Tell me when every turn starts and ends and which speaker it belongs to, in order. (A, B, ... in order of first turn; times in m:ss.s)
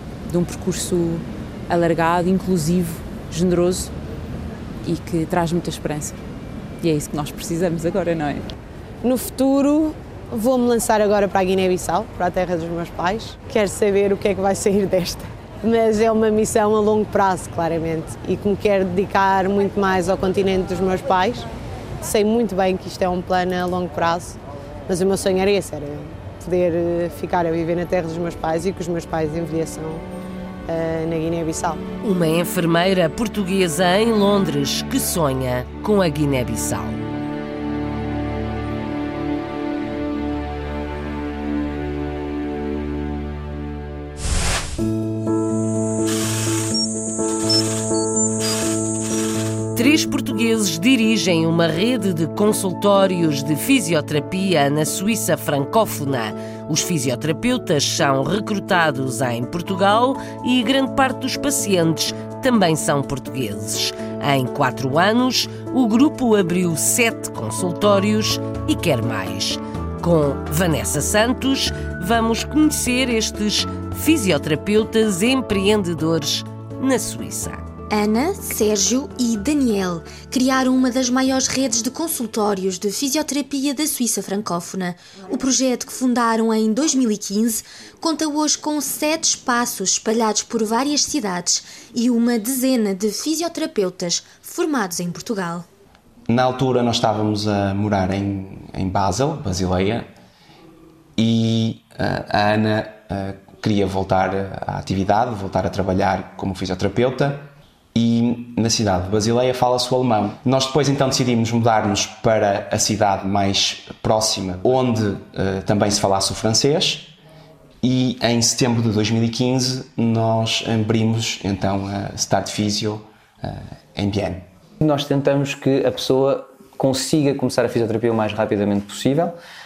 0:00.2-0:03.9 A
0:04.8-0:06.2 A
0:06.8-0:08.4 A
0:09.0-0:21.5 B
0:22.0-0:24.4 B
0:24.9-0:30.0 B
0:30.7-0:31.8 B
0:32.0-0:37.0 C
0:49.8-1:17.6 C
1:17.9-1:35.6 D
1:36.3-1:40.1 E
1:41.2-1:57.1 E
1:57.8-2:04.5 E
2:04.8-2:09.4 F